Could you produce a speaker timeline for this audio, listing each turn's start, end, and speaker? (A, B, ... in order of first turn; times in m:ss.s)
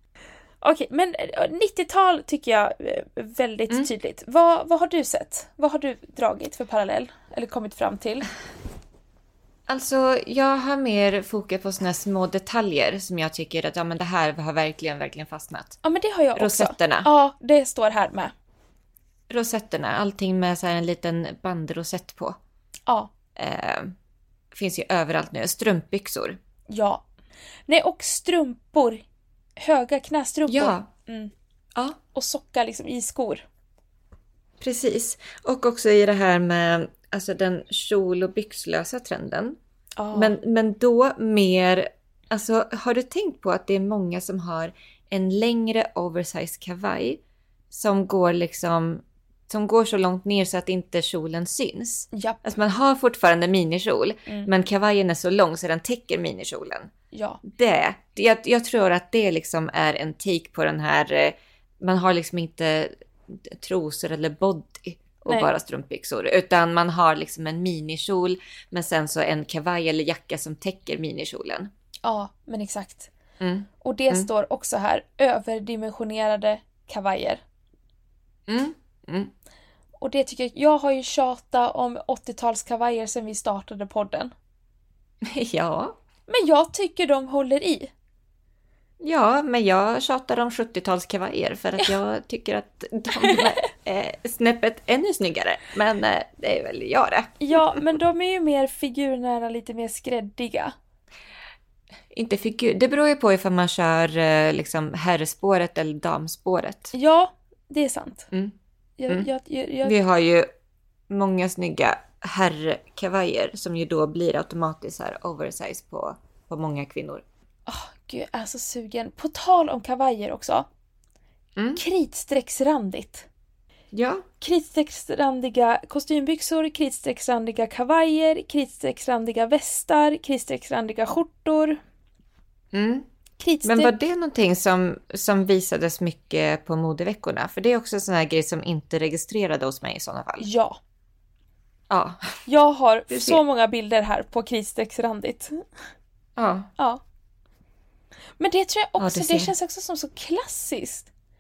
0:00.6-0:08.3 A
0:09.7-0:15.8 B
0:15.8-0:18.3 A
0:16.4-0:17.1 B
0:19.3-0:22.4 B
0:23.4-0:23.9 B
0:24.5-0:26.4 B
0:26.7-0:27.0 A
0:27.7-0:29.0 A
0:29.6-0:31.3 A
0:30.5-0:30.9 B
0:32.1-0:33.4 A
0:34.6-0:39.6 B
0:40.0-0:40.4 A
0:40.1-0:56.9 B
0:52.1-0:52.5 A
0:57.1-0:57.4 A
0:57.4-1:11.7 B
1:12.0-1:13.1 A
1:13.4-1:14.3 B
1:13.8-1:17.4 A
1:18.5-1:19.3 B
1:20.0-1:24.3 A
1:25.2-1:26.0 B
1:26.3-1:27.9 A
1:29.0-1:37.4 B
1:33.2-1:33.5 A
1:37.4-1:40.7 A
1:42.1-1:46.9 B
1:46.9-1:48.3 A
1:49.0-1:50.0 A
1:49.8-1:50.5 B
1:51.1-1:57.2 B
1:57.7-2:00.7 A
2:01.6-2:01.8 B
2:01.8-2:03.3 A
2:03.9-2:04.2 B
2:04.4-2:11.8 A
2:12.7-2:13.1 B
2:13.4-2:14.0 A
2:13.6-2:20.5 B
2:20.4-2:20.8 A
2:21.9-2:22.4 B
2:22.5-2:25.6 A
2:23.1-2:23.4 B
2:26.4-2:26.7 B
2:28.4-2:31.1 A
2:29.0-2:29.5 B